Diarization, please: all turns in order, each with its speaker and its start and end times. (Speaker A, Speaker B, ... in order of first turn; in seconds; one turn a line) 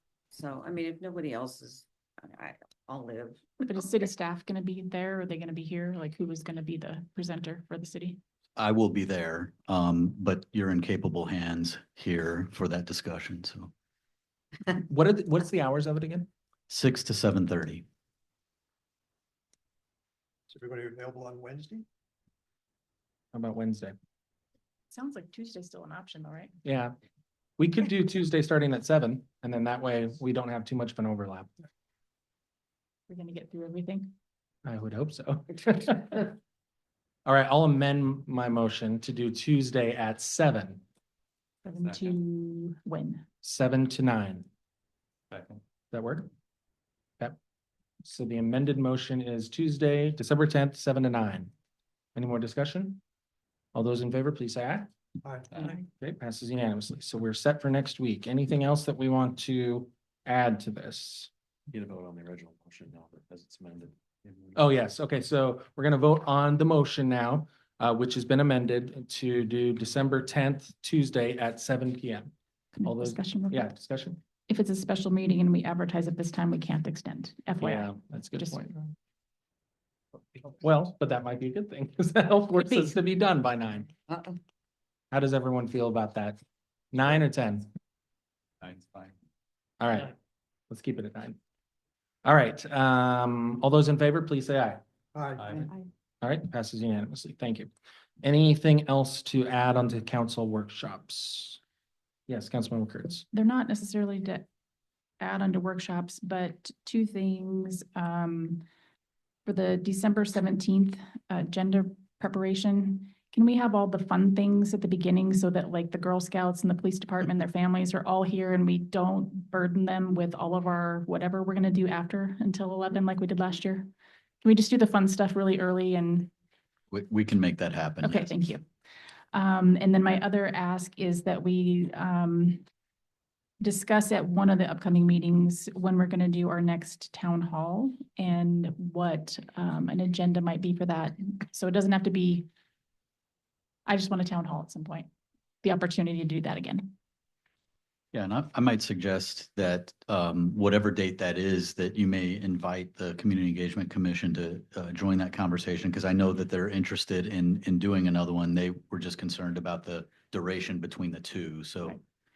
Speaker A: 0.3-3.6
Speaker B: 3.6-8.2
Speaker C: 8.6-13.7
Speaker D: 14.8-16.3
Speaker C: 16.7-17.8
Speaker E: 20.5-21.8
Speaker D: 23.3-23.9
Speaker B: 24.9-26.5
Speaker D: 26.6-26.9
Speaker D: 27.6-31.5
Speaker B: 33.1-34.1
Speaker D: 34.6-36.4
Speaker D: 37.2-40.8
Speaker B: 41.6-43.2
Speaker D: 43.4-44.5
Speaker D: 45.9-46.3
Speaker D: 48.0-51.5
Speaker D: 52.1-53.0
Speaker D: 53.7-54.9
Speaker E: 55.2-55.8
Speaker D: 55.8-61.3
Speaker F: 61.7-64.6
Speaker D: 64.5-72.3
Speaker B: 72.7-73.7
Speaker D: 72.8-74.2
Speaker B: 74.5-78.6
Speaker D: 77.6-78.9
Speaker D: 80.5-83.9
Speaker A: 84.1-84.4
Speaker D: 85.1-86.4
Speaker D: 86.9-87.7
Speaker D: 89.8-90.1
Speaker D: 90.7-91.4
Speaker D: 92.2-94.8
Speaker E: 95.1-95.7
Speaker D: 96.2-97.7
Speaker D: 98.2-101.6
Speaker D: 102.3-103.2
Speaker B: 103.3-104.5
Speaker B: 105.2-108.6
Speaker B: 109.5-123.9
Speaker B: 124.4-126.3
Speaker C: 126.9-128.3
Speaker B: 128.0-128.6
Speaker B: 129.3-132.6
Speaker B: 133.6-142.5
Speaker B: 143.9-145.1
Speaker B: 145.6-146.9
Speaker C: 148.1-162.0